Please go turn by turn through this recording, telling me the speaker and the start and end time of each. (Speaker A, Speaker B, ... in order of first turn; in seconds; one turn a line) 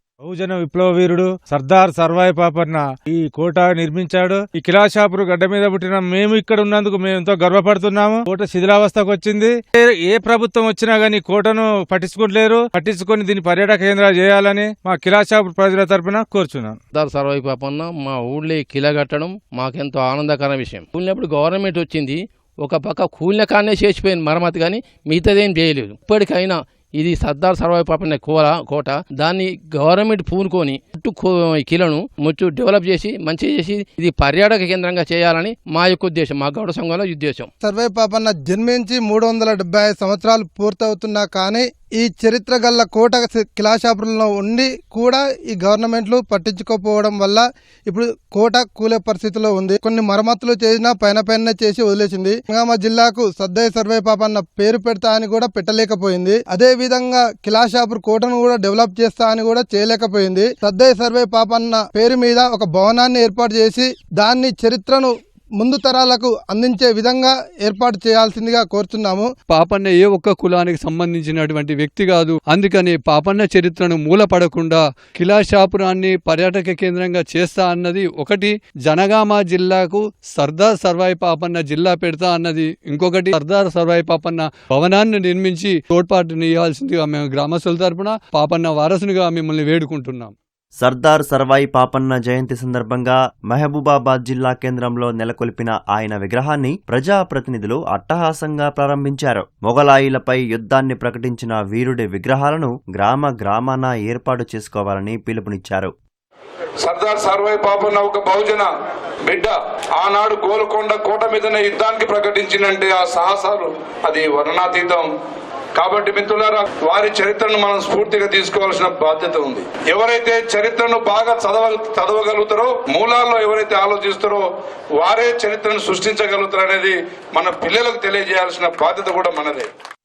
Speaker A: 0.2-16.8
Speaker B: 16.9-37.5
Speaker C: 37.6-69.3
Speaker D: 69.5-90.3
Speaker E: 90.8-105.9
Speaker F: 106.8-108.7
Speaker F: 109.3-115.1
Speaker F: 115.8-124.4
Speaker F: 125.0-129.7